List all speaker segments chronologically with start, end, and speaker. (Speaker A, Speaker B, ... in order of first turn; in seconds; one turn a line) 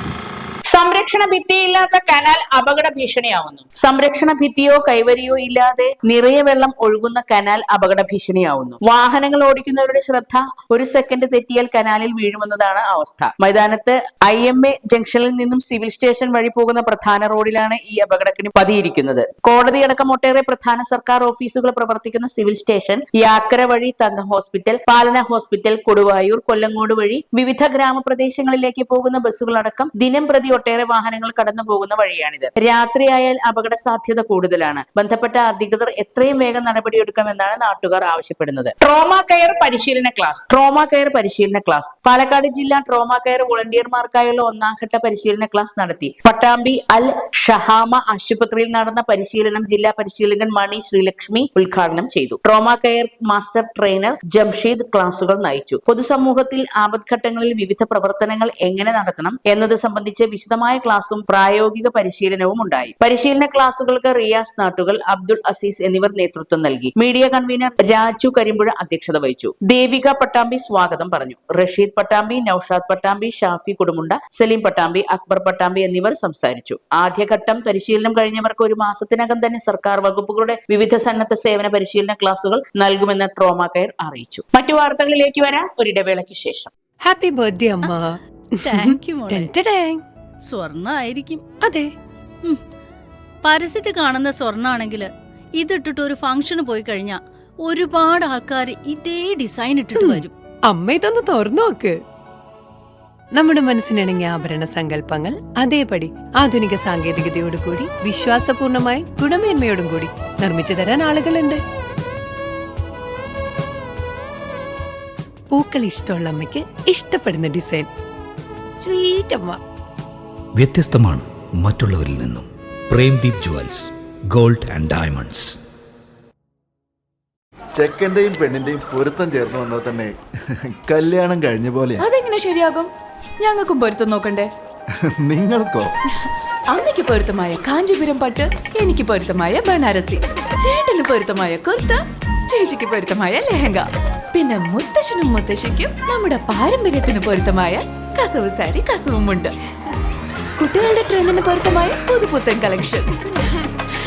Speaker A: 0.7-86.7
Speaker B: 87.0-88.2
Speaker C: 88.6-89.5
Speaker B: 88.7-90.0
Speaker C: 90.4-91.4
Speaker C: 93.4-100.3
Speaker B: 100.0-102.0
Speaker B: 103.3-111.6
Speaker B: 115.5-117.9
Speaker B: 118.8-119.6
Speaker D: 120.6-125.6
Speaker E: 127.8-130.1
Speaker E: 130.8-132.0
Speaker F: 132.0-134.5
Speaker E: 135.2-135.9
Speaker F: 136.7-149.5
Speaker F: 150.6-153.6